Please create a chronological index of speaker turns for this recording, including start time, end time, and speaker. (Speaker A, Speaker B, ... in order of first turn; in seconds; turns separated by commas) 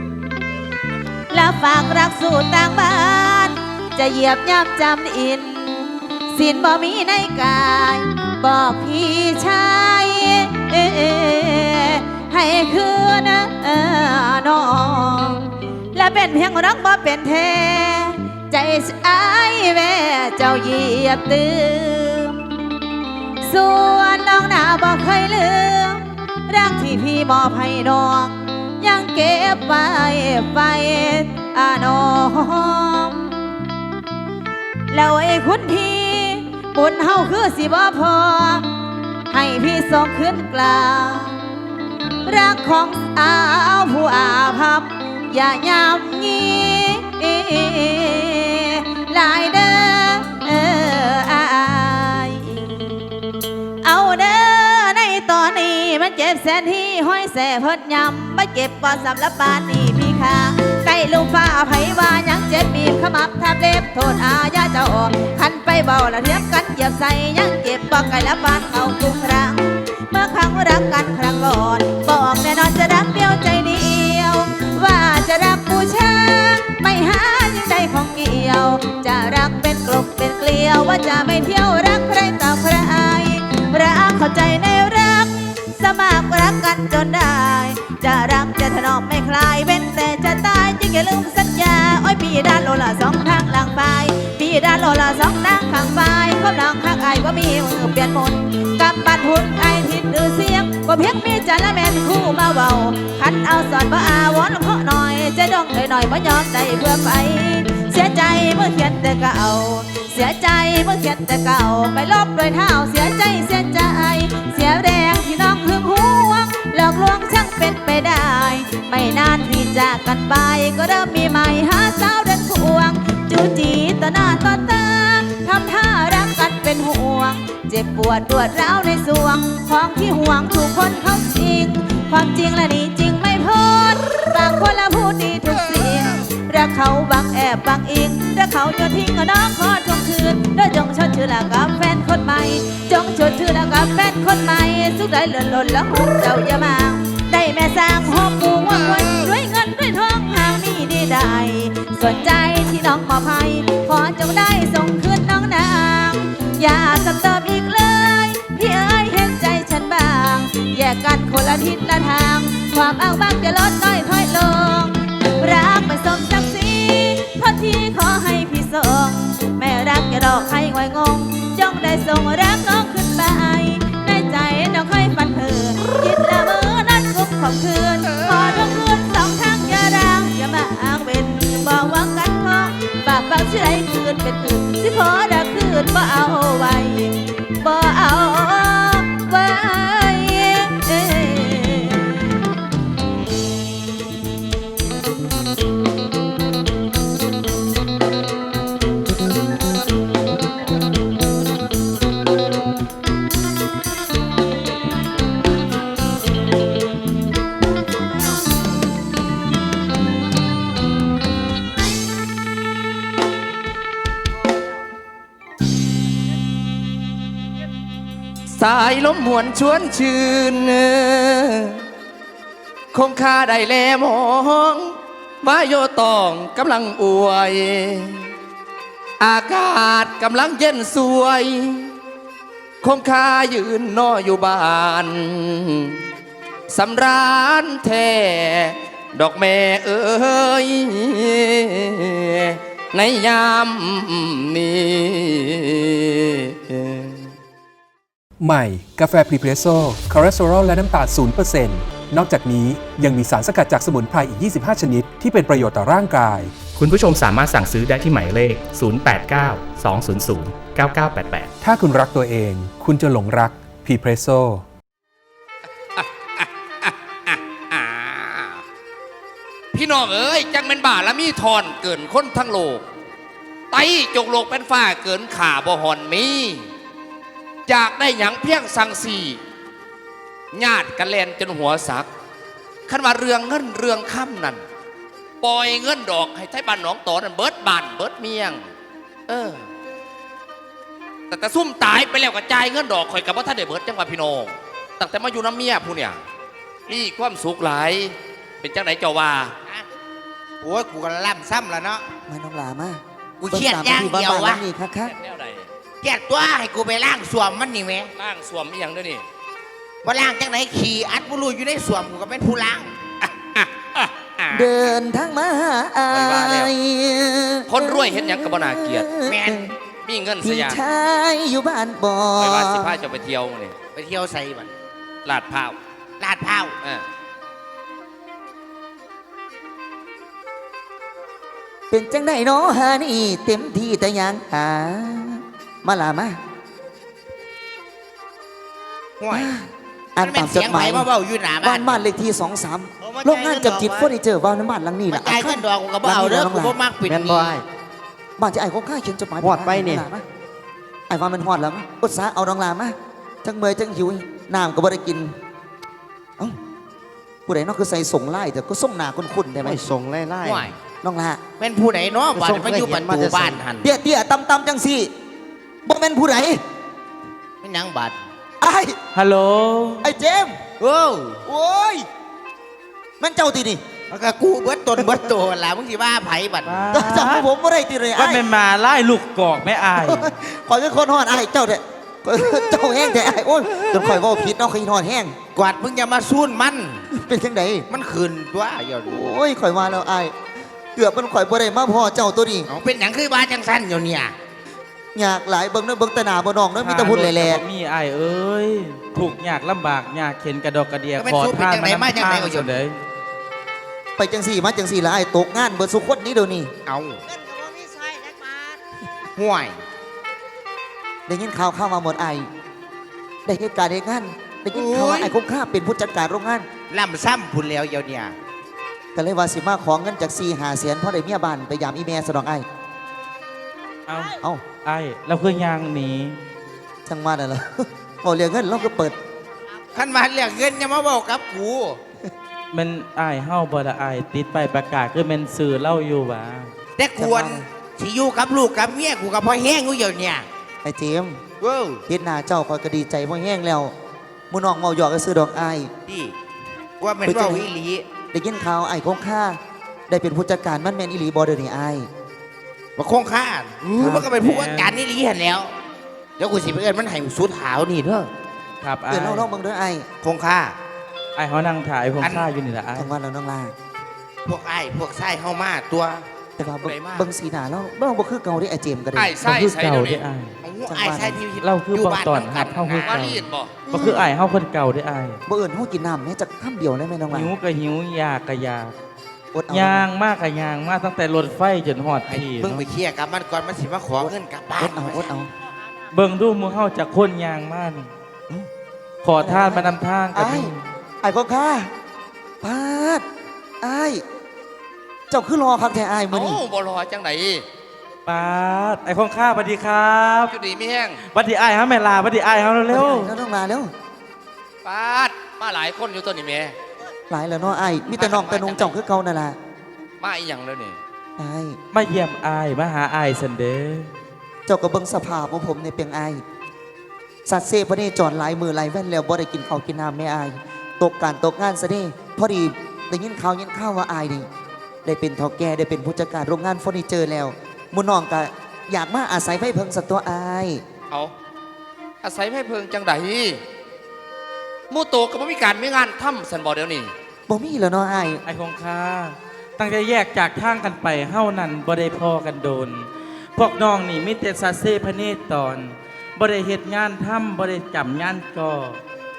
Speaker A: 1.3-22.5, Speaker A: 23.4-33.3, Speaker A: 34.9-38.7, Speaker A: 39.3-41.4, Speaker A: 42.2-52.7, Speaker A: 53.8-192.1, Speaker B: 218.5-221.8, Speaker B: 222.9-228.3, Speaker B: 229.2-231.9, Speaker B: 232.8-236.0, Speaker B: 236.7-247.3, Speaker C: 248.4-256.6, Speaker D: 256.7-261.5, Speaker C: 261.6-264.6, Speaker B: 266.0-268.6, Speaker B: 269.7-272.8, Speaker B: 273.7-276.7, Speaker B: 277.7-279.4, Speaker B: 280.5-282.1, Speaker B: 282.9-284.6, Speaker B: 285.4-288.6, Speaker B: 289.3-289.6, Speaker B: 291.3-296.2, Speaker B: 296.9-299.5, Speaker E: 300.6-302.0, Speaker F: 302.3-305.1, Speaker E: 303.4-304.6, Speaker B: 305.0-305.7, Speaker E: 306.0-308.1, Speaker B: 308.2-309.2, Speaker E: 310.0-312.9, Speaker B: 313.2-314.8, Speaker F: 314.5-319.7, Speaker B: 316.1-316.7, Speaker B: 317.7-319.1, Speaker E: 319.2-319.7, Speaker B: 320.1-320.8, Speaker F: 320.4-323.0, Speaker B: 322.4-323.8, Speaker E: 323.9-324.7, Speaker B: 325.2-325.8, Speaker E: 326.2-326.7, Speaker F: 331.9-336.4, Speaker E: 339.2-339.5, Speaker F: 339.3-341.1, Speaker E: 340.2-342.0, Speaker F: 341.6-346.8, Speaker G: 343.0-344.1, Speaker E: 345.1-347.6, Speaker G: 347.0-347.6, Speaker F: 348.4-350.2, Speaker G: 349.4-350.1, Speaker F: 351.1-355.4, Speaker F: 357.5-359.9, Speaker G: 359.6-360.7, Speaker E: 360.4-360.8, Speaker F: 361.0-361.4, Speaker E: 361.6-363.9, Speaker G: 362.4-363.6, Speaker F: 363.8-365.1, Speaker F: 365.9-366.6, Speaker E: 367.6-368.2, Speaker F: 368.6-369.0, Speaker H: 369.1-370.1, Speaker F: 370.0-370.6, Speaker E: 370.8-371.4, Speaker F: 371.5-372.1, Speaker F: 373.2-373.8, Speaker E: 374.1-376.9, Speaker H: 376.6-377.5, Speaker F: 376.9-378.4, Speaker H: 378.1-380.3, Speaker F: 380.0-385.4, Speaker E: 385.6-387.1, Speaker F: 387.1-387.9, Speaker E: 387.9-389.1, Speaker F: 389.1-390.3, Speaker F: 390.9-392.7, Speaker E: 392.7-394.3, Speaker F: 395.1-397.6, Speaker H: 396.8-403.0, Speaker E: 401.2-402.8, Speaker F: 404.2-406.7, Speaker E: 406.9-407.2, Speaker E: 409.4-409.8, Speaker F: 411.3-412.5, Speaker F: 413.5-416.7, Speaker E: 414.7-415.3, Speaker E: 416.9-418.3, Speaker F: 419.1-422.7, Speaker H: 424.1-426.4, Speaker F: 424.3-424.6, Speaker F: 427.1-429.2, Speaker E: 429.9-432.0, Speaker H: 432.7-436.7, Speaker E: 437.0-440.5, Speaker F: 437.2-437.7, Speaker F: 440.8-441.4, Speaker E: 441.6-442.0, Speaker F: 442.1-443.9, Speaker F: 444.5-445.9, Speaker E: 446.1-446.3, Speaker E: 447.0-448.1, Speaker F: 447.2-447.7, Speaker F: 448.3-452.1, Speaker E: 453.0-455.7, Speaker H: 454.0-455.0, Speaker E: 456.4-458.3, Speaker H: 458.8-459.5, Speaker F: 459.1-460.1, Speaker E: 460.2-460.8, Speaker H: 461.4-463.1, Speaker E: 462.2-462.5, Speaker F: 462.9-463.8, Speaker E: 464.4-466.2, Speaker F: 466.6-469.8, Speaker B: 466.8-467.3, Speaker B: 469.2-470.2, Speaker H: 469.6-470.6, Speaker E: 470.6-473.4, Speaker F: 470.9-471.4, Speaker H: 471.6-475.4, Speaker B: 472.9-473.8, Speaker E: 473.9-474.2, Speaker F: 473.9-474.3, Speaker F: 475.5-477.5, Speaker H: 477.3-478.9, Speaker F: 479.5-480.1, Speaker H: 479.7-482.9, Speaker E: 482.3-485.3, Speaker F: 484.8-485.5, Speaker H: 486.1-488.1, Speaker H: 489.2-490.8, Speaker F: 489.4-490.7, Speaker F: 491.2-491.9, Speaker F: 492.6-493.2, Speaker F: 493.8-494.2, Speaker F: 495.3-496.6, Speaker B: 496.3-497.6, Speaker H: 498.3-500.5, Speaker B: 500.5-501.2, Speaker H: 501.2-503.3, Speaker F: 502.9-503.9, Speaker B: 504.9-506.8, Speaker F: 507.3-509.6, Speaker B: 508.1-508.9, Speaker B: 510.2-511.0, Speaker F: 511.4-511.8, Speaker H: 511.9-514.1, Speaker F: 514.7-516.4, Speaker F: 517.5-524.5, Speaker F: 525.0-530.8, Speaker B: 532.2-533.6, Speaker B: 534.9-537.1, Speaker F: 537.5-538.4, Speaker H: 538.5-549.0